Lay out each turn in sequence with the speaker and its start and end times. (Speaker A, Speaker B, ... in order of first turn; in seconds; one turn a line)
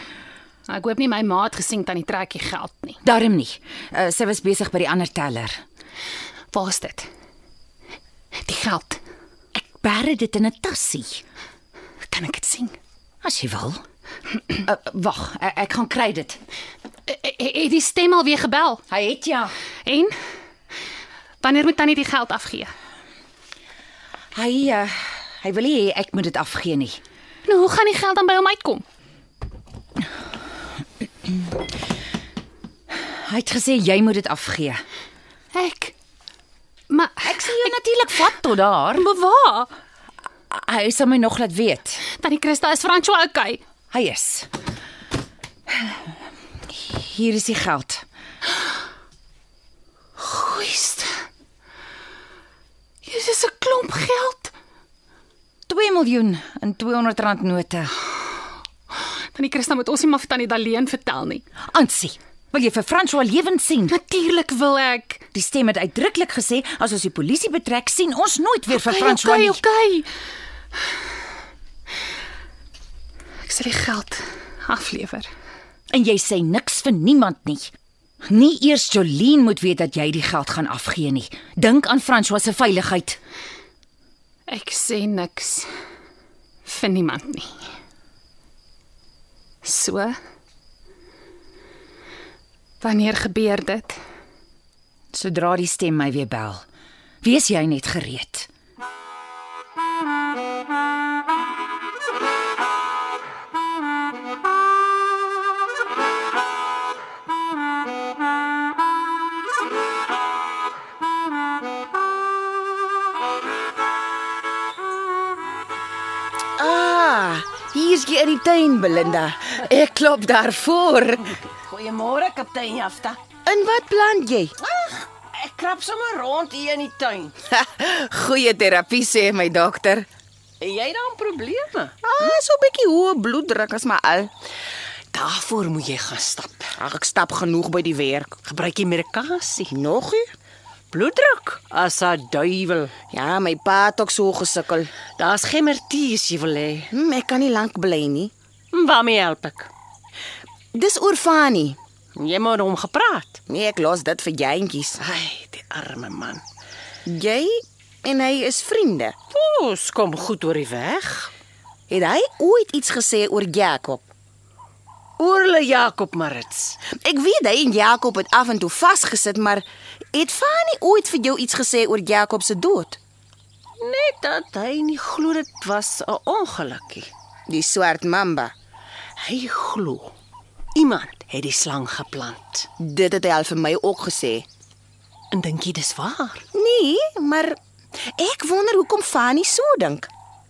Speaker A: 0.7-3.0
Speaker B: 3.0-5.6
Speaker A: 6.5-7.1
Speaker A: 8.5-9.0
Speaker B: 9.5-11.2
Speaker A: 12.1-12.8
Speaker B: 13.2-13.8
Speaker B: 14.6-16.4
Speaker A: 17.1-18.8
Speaker B: 18.9-19.5
Speaker A: 19.9-20.1
Speaker A: 21.4-22.7
Speaker B: 24.3-27.0
Speaker A: 27.4-28.8
Speaker B: 33.2-34.8
Speaker A: 35.5-35.9
Speaker A: 36.9-37.8
Speaker B: 37.2-39.1
Speaker A: 39.0-39.7
Speaker B: 40.5-42.0
Speaker A: 42.2-43.6
Speaker B: 43.9-44.5
Speaker B: 46.8-48.0
Speaker A: 50.4-51.0
Speaker A: 53.0-54.5
Speaker B: 55.7-57.9
Speaker A: 59.3-61.4
Speaker B: 61.7-64.0
Speaker A: 63.9-65.2
Speaker B: 65.3-69.6
Speaker A: 68.7-70.1
Speaker A: 73.5-75.3
Speaker B: 75.9-77.7
Speaker B: 78.2-83.2
Speaker A: 84.5-85.7
Speaker A: 86.7-87.5
Speaker A: 89.6-90.2
Speaker A: 92.8-94.0
Speaker B: 95.1-96.6
Speaker B: 97.2-98.5
Speaker C: 116.6-121.3
Speaker D: 121.6-123.2
Speaker C: 123.5-124.5
Speaker D: 124.6-127.4
Speaker C: 127.5-130.1
Speaker D: 130.6-131.9
Speaker C: 132.0-134.3
Speaker D: 135.1-136.8
Speaker C: 136.8-138.4
Speaker D: 138.5-139.7
Speaker C: 139.7-140.3
Speaker D: 140.9-142.9
Speaker C: 143.1-144.9
Speaker D: 145.2-146.9
Speaker C: 146.9-148.3
Speaker D: 148.7-149.7
Speaker C: 150.7-151.8
Speaker D: 152.2-153.4
Speaker C: 153.5-155.0
Speaker D: 155.0-156.4
Speaker C: 157.1-159.2
Speaker D: 159.3-161.3
Speaker C: 161.9-164.1
Speaker D: 165.2-166.8
Speaker C: 167.0-173.0
Speaker D: 173.8-177.1
Speaker C: 177.5-178.5
Speaker D: 179.2-180.1
Speaker D: 180.8-182.7
Speaker C: 182.8-184.5
Speaker D: 185.3-186.4
Speaker C: 186.5-187.6
Speaker C: 188.1-190.1